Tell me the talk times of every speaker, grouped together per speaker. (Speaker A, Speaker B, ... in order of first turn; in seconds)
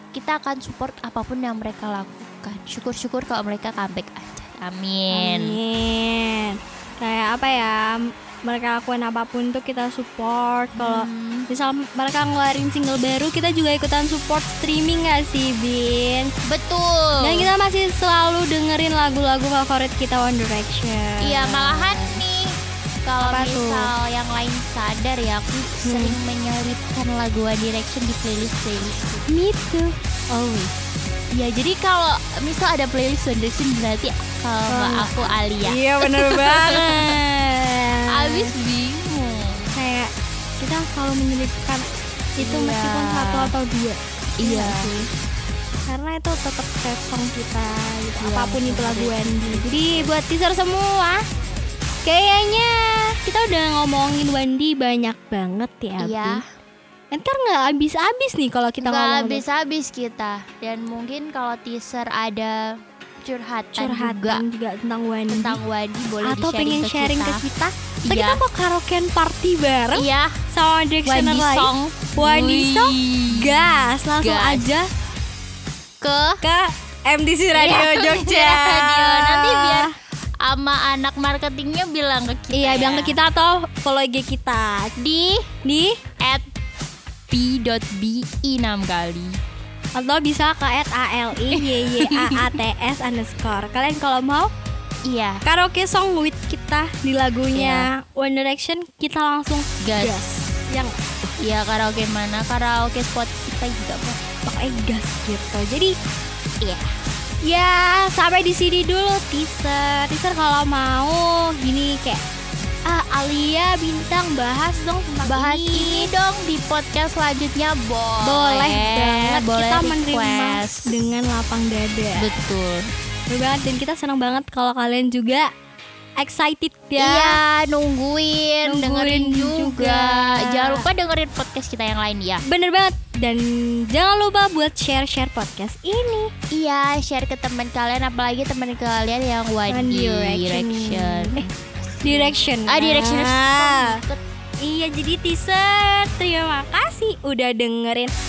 Speaker A: 0.1-5.6, 10.8-11.5, 16.4-17.5, 21.2-22.5, 23.1-29.2, 31.3-37.2, 38.1-39.7, 42.4-43.5, 44.4-44.9, 48.2-50.1, 56.0-56.4, 58.8-62.7, 63.2-64.4, 65.3-67.4, 68.0-68.4, 69.9-70.4, 71.0-74.7, 76.0-76.4, 77.5-83.2, 85.0-85.5, 86.2-86.5, 87.3-89.4, 91.3-92.5, 95.0-95.4, 97.5-97.9, 99.8-100.3, 101.4-104.2, 106.6-106.9, 115.2-121.0, 122.2-122.9, 127.0-132.4, 136.5-144.2
Speaker B: 5.1-7.9, 8.4-16.3, 17.2-22.2, 23.2-23.9, 25.8-26.1, 29.3-30.8, 34.7-38.5, 39.7-41.9, 42.4-45.1, 45.9-51.2, 52.0-56.4, 57.1-59.4, 63.8-65.6, 66.2-74.9, 76.4-79.9, 82.5-84.9, 85.6-86.0, 89.9-94.5, 95.4-101.3, 104.4-105.9, 107.4-112.2, 112.8-116.1, 118.2-122.3, 123.3-125.5, 126.2-127.4, 128.6-130.9, 132.4-136.3, 139.7-141.5, 142.0-144.0, 144.6-148.1